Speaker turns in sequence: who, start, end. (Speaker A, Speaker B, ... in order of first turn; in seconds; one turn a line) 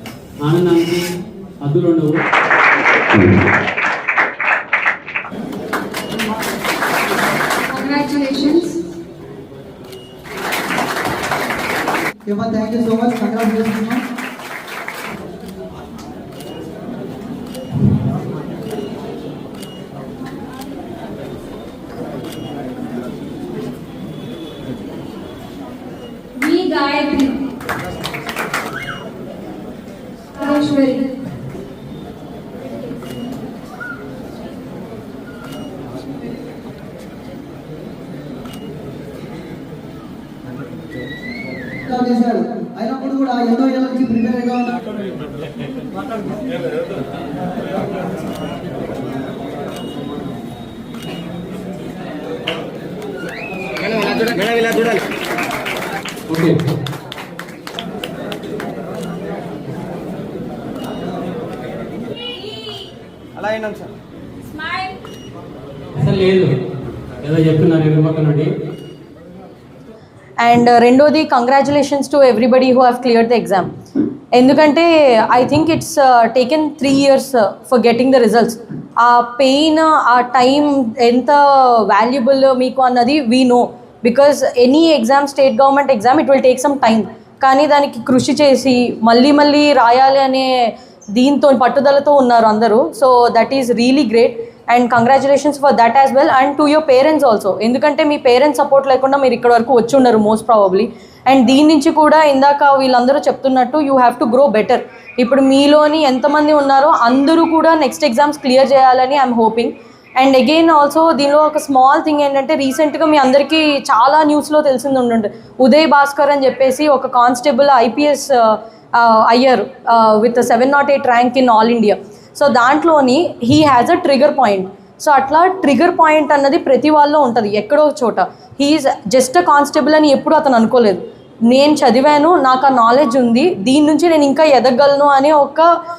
Speaker A: 0.4-2.2
Speaker B: 7.7-8.8
Speaker C: 12.3-14.0
Speaker B: 26.4-27.3
Speaker B: 30.4-31.1
Speaker C: 41.9-44.8
Speaker A: 56.3-56.7
Speaker B: 62.2-62.9
Speaker B: 64.5-65.0
Speaker A: 66.0-66.6
Speaker A: 67.2-68.5
Speaker D: 70.4-73.7
Speaker D: 74.3-135.7